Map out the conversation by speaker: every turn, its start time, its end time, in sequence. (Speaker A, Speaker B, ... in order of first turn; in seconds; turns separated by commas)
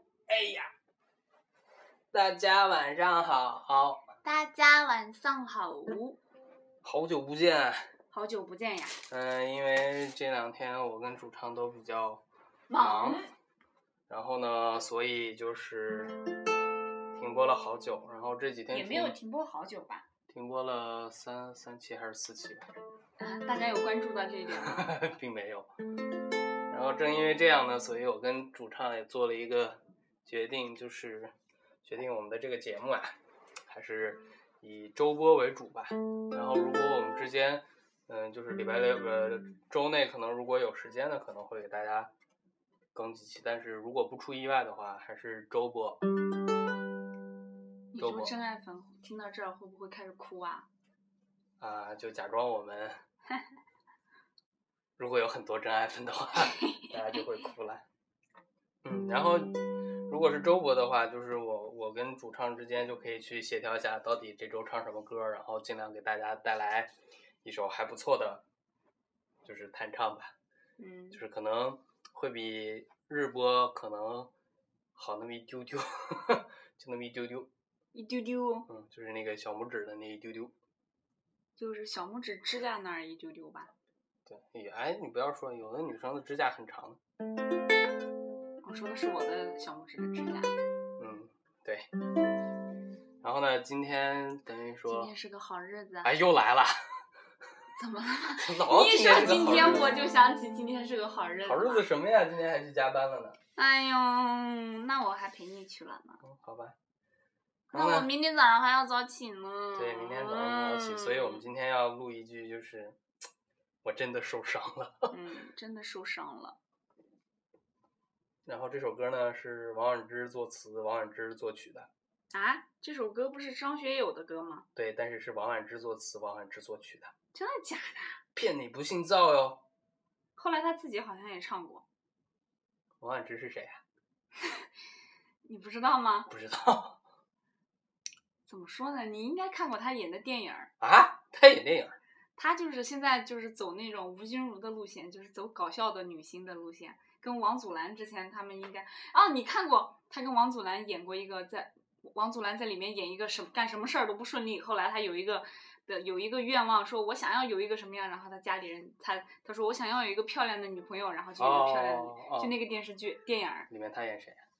Speaker A: 0.3-0.7, Speaker A: 2.1-4.0, Speaker B: 4.2-6.2, Speaker A: 6.8-7.8, Speaker B: 8.1-9.0, Speaker A: 9.1-12.2, Speaker B: 12.7-13.3, Speaker A: 12.7-13.3, Speaker A: 14.1-16.1, Speaker A: 17.1-19.1, Speaker B: 18.7-20.1, Speaker A: 20.3-22.7, Speaker B: 23.2-24.9, Speaker A: 24.6-25.7, Speaker A: 26.7-31.3, Speaker A: 31.8-33.1, Speaker A: 33.7-42.1, Speaker A: 42.9-46.0, Speaker B: 47.9-50.7, Speaker A: 48.0-48.3, Speaker A: 51.6-53.0, Speaker A: 55.0-57.8, Speaker B: 56.5-56.9, Speaker A: 58.8-59.5, Speaker A: 60.1-66.9, Speaker A: 67.4-68.4, Speaker A: 69.4-70.3, Speaker B: 70.8-71.2, Speaker A: 71.1-74.3, Speaker A: 75.0-77.5, Speaker B: 77.9-78.7, Speaker A: 78.7-80.5, Speaker B: 81.6-83.7, Speaker A: 84.2-87.0, Speaker B: 88.6-90.5, Speaker A: 91.0-91.9, Speaker A: 93.2-95.1, Speaker B: 94.8-96.1, Speaker A: 96.0-96.8, Speaker B: 97.8-101.9, Speaker A: 98.4-100.0, Speaker A: 101.4-103.4, Speaker B: 103.5-106.2, Speaker A: 106.2-106.7, Speaker A: 107.7-108.1, Speaker B: 107.7-111.5, Speaker A: 109.8-113.0, Speaker A: 113.8-115.1, Speaker B: 115.1-116.6, Speaker A: 118.4-121.9, Speaker B: 122.3-124.6, Speaker A: 124.7-127.1, Speaker B: 127.3-128.2, Speaker A: 128.3-129.6, Speaker B: 130.3-131.8, Speaker A: 133.0-133.8, Speaker B: 134.4-134.7, Speaker B: 135.4-136.3, Speaker A: 136.3-137.0, Speaker B: 138.5-140.7, Speaker A: 140.8-142.0, Speaker B: 142.4-163.7, Speaker A: 161.4-162.5, Speaker A: 163.7-164.4